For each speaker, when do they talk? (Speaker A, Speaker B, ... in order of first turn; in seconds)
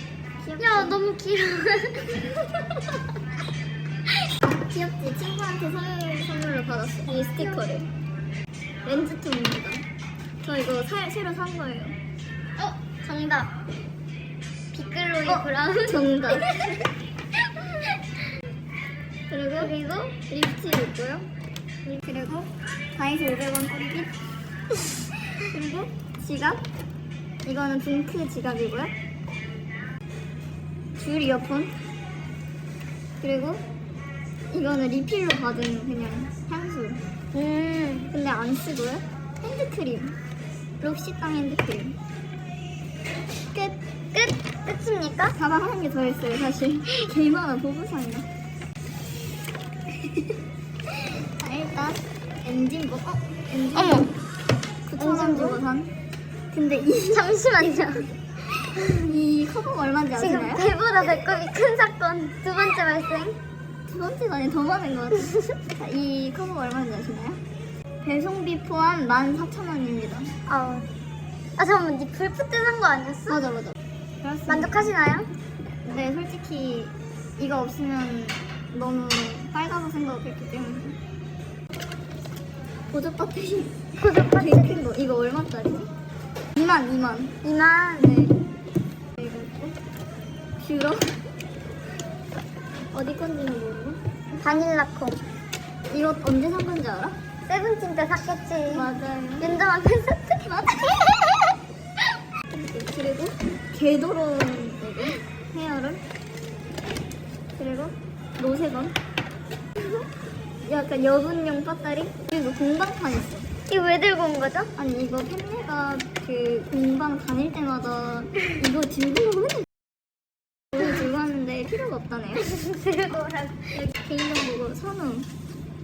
Speaker A: 0.4-1.0, 4.4-7.9, 8.8-9.8, 10.4-12.0, 15.3-16.7, 19.3-19.8, 20.3-21.3, 21.9-24.1, 25.4-26.6, 27.4-28.9, 31.0-31.7, 33.2-33.6, 34.5-37.0, 38.1-40.2, 40.8-42.0, 45.3-48.3, 51.1-54.1, 54.9-55.9, 56.5-58.0, 58.8-60.8, 63.9-67.4, 68.0-70.3, 73.3-74.9, 75.8-81.0, 82.9-85.9, 86.5-88.3, 89.2-89.8, 90.6-91.1, 92.9-94.0, 95.9-97.2, 98.7-99.6, 100.5-101.2, 102.5-106.0, 107.6-109.0, 110.6-113.5, 114.8-119.7, 120.7-122.5, 123.7-125.3
Speaker B: 0.6-2.4, 7.1-7.7, 12.6-13.6, 14.7-16.8, 19.6-20.2, 37.3-38.1, 43.6-45.4, 53.8-54.1, 55.0-55.6, 57.1-58.1, 60.2-63.4, 70.5-70.9, 71.6-73.4, 74.5-75.3, 84.0-84.9, 87.5-88.3, 94.4-95.2, 97.5-98.9, 99.4-100.5, 113.7-114.7, 122.4-123.8